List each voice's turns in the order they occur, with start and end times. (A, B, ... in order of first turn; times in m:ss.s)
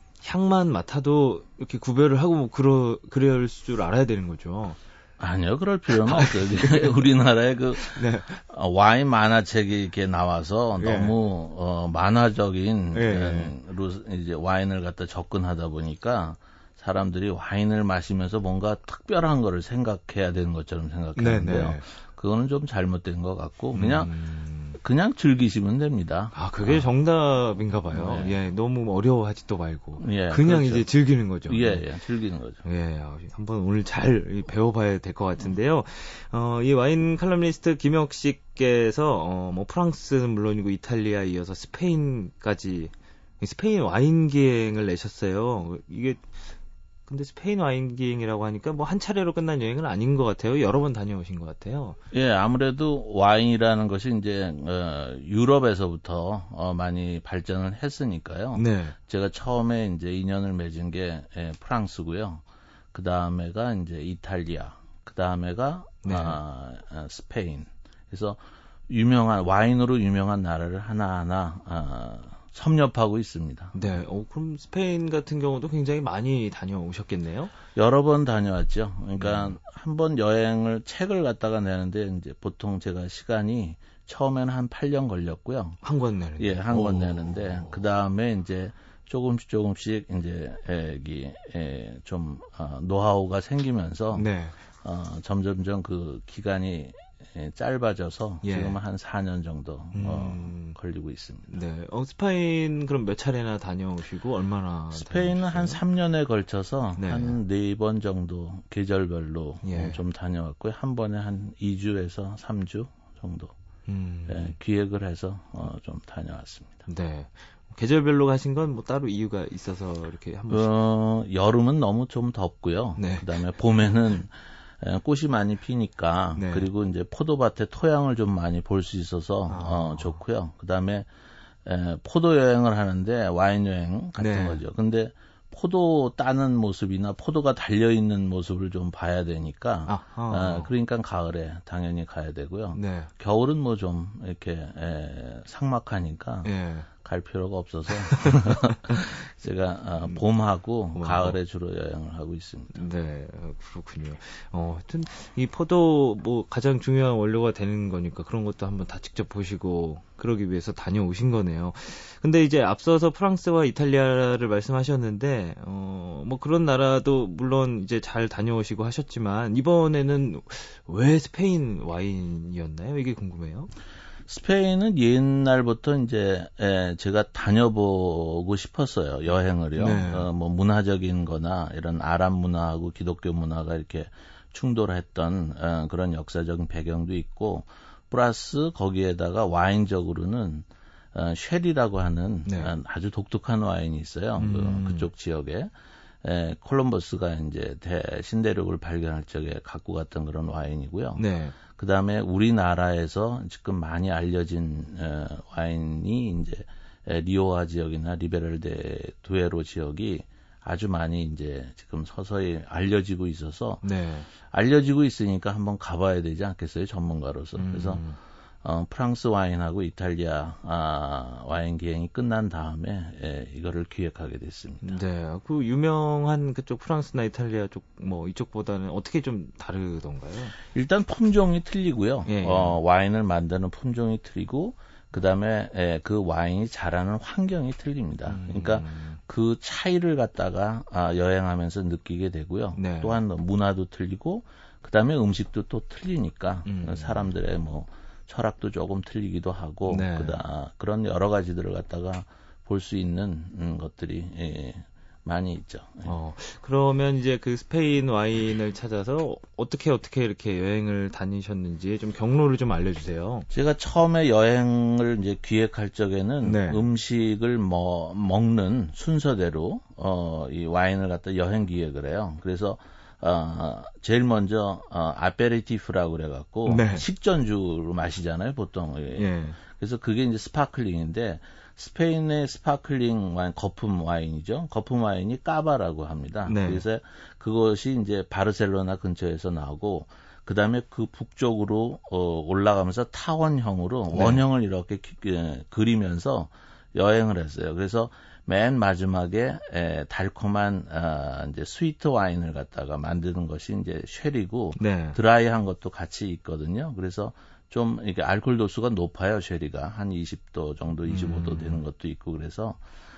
0:00.2-0:04.8 A
0:05.2-0:24.1 B
0:05.9-0:06.9 A
0:07.9-0:08.4 A
0:10.8-0:11.1 A
0:12.9-0:13.6 A
0:21.2-0:21.8 A
0:23.7-0:24.8 A
0:24.8-0:26.9 B
0:26.3-0:31.8 A
0:27.9-0:28.3 B
0:30.0-0:32.6 B
0:32.6-0:46.4 A
0:47.1-0:52.0 A
0:52.1-1:13.8 B
0:58.6-0:59.0 A
1:06.0-1:06.4 A
1:13.7-1:17.5 A
1:17.7-1:25.8 B
1:19.2-1:19.6 A
1:25.8-1:27.8 A
1:26.4-1:41.5 B
1:34.1-1:34.6 A
1:38.4-1:38.8 A
1:39.9-1:40.8 A
1:41.5-1:45.8 A
1:44.9-1:53.5 B
1:47.0-1:47.4 A
1:49.6-1:50.0 A
1:53.9-1:54.6 A
1:54.3-1:56.8 B
1:56.9-2:00.7 A
2:00.5-2:11.1 B
2:03.0-2:03.3 A
2:06.4-2:06.7 A
2:09.5-2:10.2 A
2:11.6-2:32.9 B
2:14.2-2:14.6 A
2:19.9-2:20.7 A
2:22.7-2:23.1 A
2:26.4-2:26.9 A
2:28.1-2:29.0 A
2:31.0-2:31.4 A
2:32.7-2:53.7 A
2:54.3-3:15.7 B
2:59.8-3:00.3 A
3:12.5-3:12.7 A
3:14.4-3:15.1 A
3:16.2-3:33.8 B
3:21.2-3:21.6 A
3:33.8-3:34.3 A
3:34.4-3:38.0 B
3:37.6-3:38.2 A
3:38.6-3:45.0 B
3:44.8-3:50.6 A
3:50.7-4:16.2 B
3:52.3-3:52.8 A
3:58.3-3:59.2 A
4:02.8-4:03.2 A
4:06.7-4:07.3 A
4:09.9-4:10.4 A
4:16.0-4:23.5 A
4:23.5-5:12.8 B
4:26.4-4:26.8 A
4:36.7-4:37.0 A
4:39.1-4:39.6 A
4:46.5-4:46.8 A
4:54.1-4:54.4 A
5:04.8-5:05.2 A
5:11.1-5:11.8 A